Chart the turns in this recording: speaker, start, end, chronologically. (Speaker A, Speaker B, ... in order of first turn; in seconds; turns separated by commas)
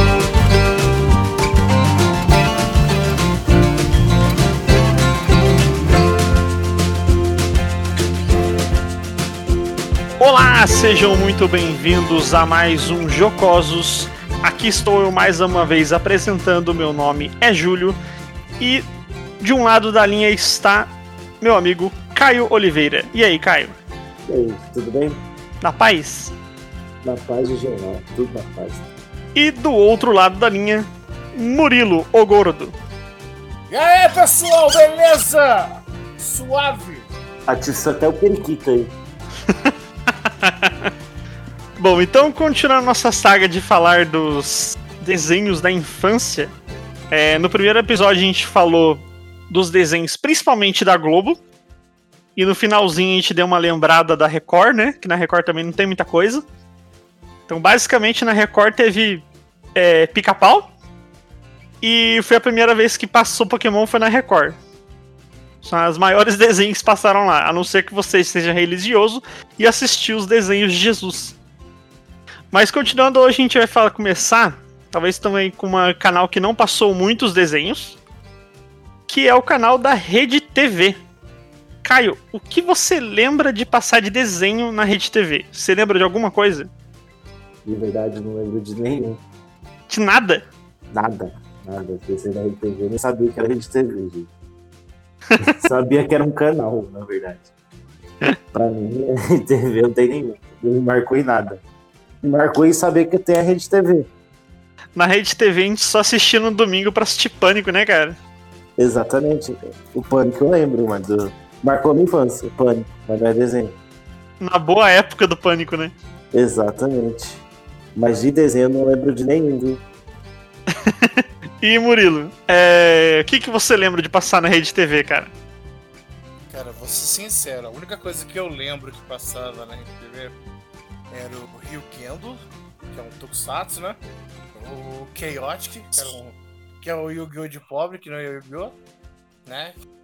Speaker A: 10.2-18.0, Speaker A: 18.6-18.9, Speaker A: 19.4-23.8, Speaker B: 24.3-25.2, Speaker A: 25.6-26.3, Speaker B: 27.0-28.9, Speaker A: 29.4-32.8, Speaker C: 33.7-37.1, Speaker B: 37.5-38.9, Speaker A: 39.5-40.9, Speaker A: 41.8-46.5, Speaker A: 47.1-51.4, Speaker A: 52.4-56.4, Speaker A: 57.5-60.7, Speaker A: 61.8-64.6, Speaker A: 65.6-71.3, Speaker A: 72.5-78.0, Speaker A: 79.1-81.0, Speaker A: 81.8-86.7, Speaker B: 87.7-89.2, Speaker A: 89.9-90.4, Speaker B: 90.9-94.3, Speaker B: 95.4-97.5, Speaker B: 98.5-101.6, Speaker B: 102.2-104.1, Speaker A: 105.0-108.2, Speaker B: 108.8-113.8, Speaker A: 114.4-115.9, Speaker B: 116.3-117.4, Speaker B: 118.0-119.8, Speaker A: 120.7-125.3, Speaker C: 126.5-130.3, Speaker C: 131.1-134.0, Speaker C: 134.6-138.8, Speaker C: 139.5-139.8